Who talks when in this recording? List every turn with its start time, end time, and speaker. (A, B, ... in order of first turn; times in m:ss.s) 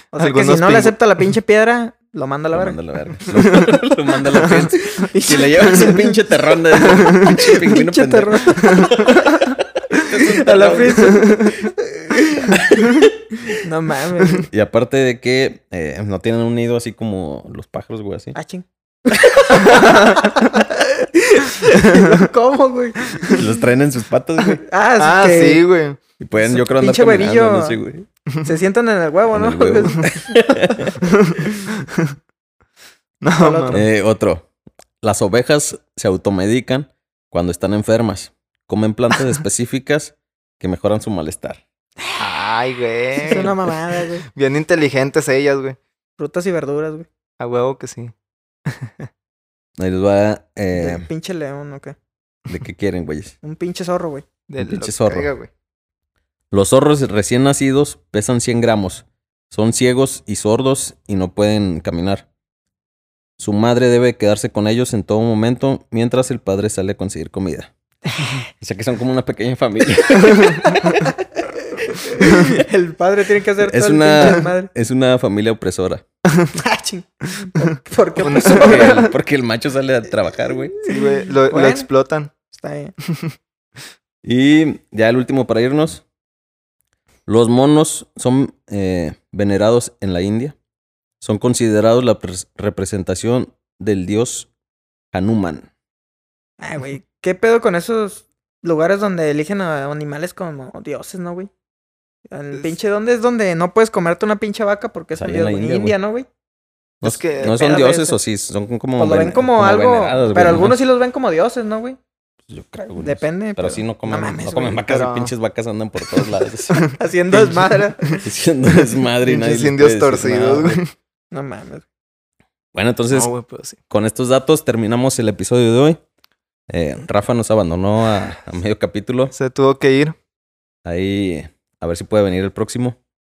0:00.1-0:02.8 A
0:00.1-0:00.9 B
0:02.5-0:11.5 C
0:03.3-0:03.7 B
0:04.7-0:06.2 A
0:06.8-0:09.4 A
0:09.9-0:12.6 A
0:11.0-0:11.5 B
0:12.5-0:13.5 C
0:13.6-0:14.5 A
0:14.3-0:18.3 C
0:18.3-0:23.5 A
0:21.8-0:22.2 B
0:23.3-0:24.6 C
0:24.5-0:25.6 A
0:25.0-0:26.0 B
0:26.2-0:28.0 C
0:26.4-0:27.8 A
0:28.4-0:30.9 A
0:29.3-0:31.1 C
0:31.2-0:32.1 B
0:33.2-0:33.8 B
0:33.4-0:33.8 A
0:33.7-0:34.4 C
0:35.0-0:41.6 C
0:42.2-0:43.6 B
0:43.1-0:44.2 A
0:43.3-0:43.6 C
0:44.3-0:45.8 B
0:46.2-0:47.1 A
0:47.4-0:48.1 B
0:48.7-0:49.1 B
0:49.8-0:51.1 C
0:50.7-0:51.9 A
0:52.5-0:53.3 C
0:53.4-0:54.2 A
0:54.5-0:55.5 B
0:54.6-0:55.3 C
0:56.5-1:02.3 C
1:03.4-1:07.7 C
1:08.6-1:11.1 C
1:10.6-1:11.0 A
1:11.9-1:14.7 A
1:13.6-1:16.0 C
1:16.6-1:19.0 A
1:18.2-1:19.1 B
1:18.4-1:20.7 C
1:20.8-1:21.9 A
1:20.8-1:22.3 B
1:22.5-1:22.9 A
1:24.2-1:26.0 C
1:27.3-1:30.5 C
1:31.2-1:34.5 C
1:35.1-1:35.7 C
1:36.6-1:41.5 A
1:42.3-1:46.3 A
1:45.1-1:45.9 C
1:47.0-1:50.8 C
1:47.0-1:47.6 B
1:47.4-1:48.2 A
1:49.0-1:52.0 A
1:52.5-1:56.9 C
1:53.0-1:54.8 A
1:54.8-1:55.3 B
1:56.9-1:58.2 A
1:57.3-1:57.8 B
1:58.2-2:00.8 C
1:58.9-2:00.9 B
2:01.3-2:01.8 A
2:02.7-2:03.3 C
2:03.1-2:03.8 B
2:03.9-2:06.0 C
2:06.7-2:09.3 C
2:09.3-2:10.2 B
2:10.8-2:13.0 C